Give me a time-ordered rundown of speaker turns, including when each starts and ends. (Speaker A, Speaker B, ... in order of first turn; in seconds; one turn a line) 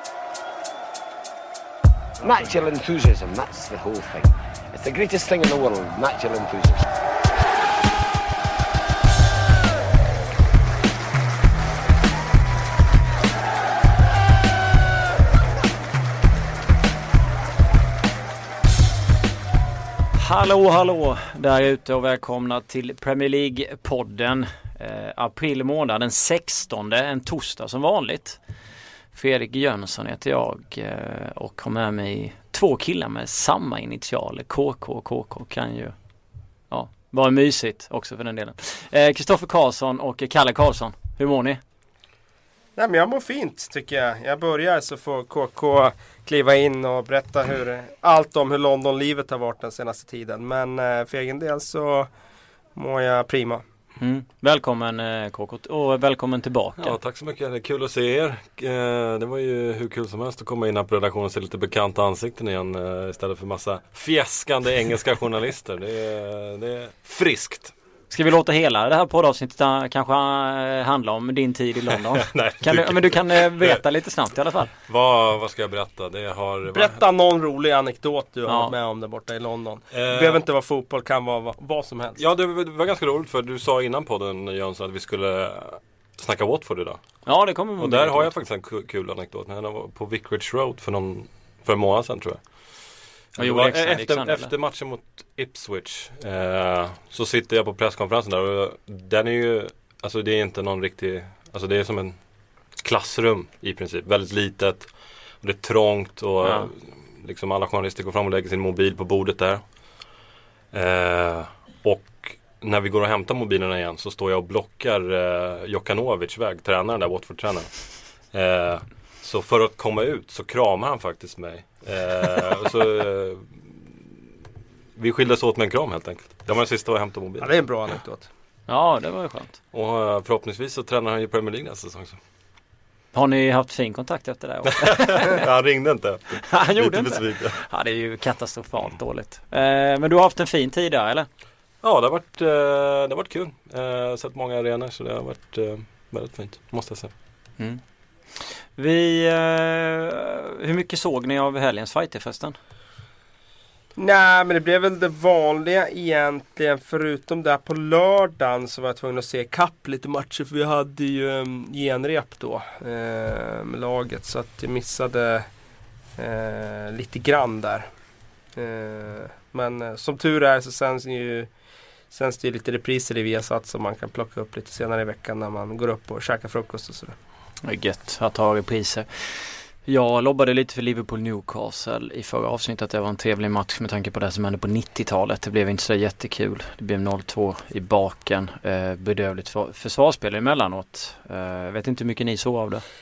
Speaker A: 2.2-6.8
Speaker B: 20.1-28.4
Speaker B: 29.1-36.0
Speaker B: 36.7-41.6
Speaker C: 42.8-52.1
Speaker C: 52.8-53.6
Speaker B: 54.0-57.0
Speaker D: 56.8-67.7
Speaker B: 68.1-74.7
Speaker D: 71.9-73.8
Speaker D: 74.9-77.0
Speaker C: 76.7-82.2
Speaker B: 78.5-78.7
Speaker D: 79.9-80.4
Speaker D: 82.2-87.2
Speaker B: 87.3-88.3
Speaker D: 87.8-92.4
Speaker D: 93.3-102.2
Speaker B: 93.4-94.5
Speaker D: 102.8-109.6
Speaker B: 106.4-106.7
Speaker D: 110.7-124.0
Speaker D: 125.0-127.6
Speaker C: 127.4-128.3
Speaker B: 128.7-129.6
Speaker D: 129.7-132.2
Speaker B: 133.1-135.5
Speaker D: 134.9-137.6
Speaker B: 136.4-141.3
Speaker D: 141.8-147.1
Speaker B: 148.4-152.6
Speaker C: 154.0-165.5
Speaker C: 166.2-167.9
Speaker C: 168.6-171.5
Speaker C: 172.1-177.2
Speaker B: 177.6-192.8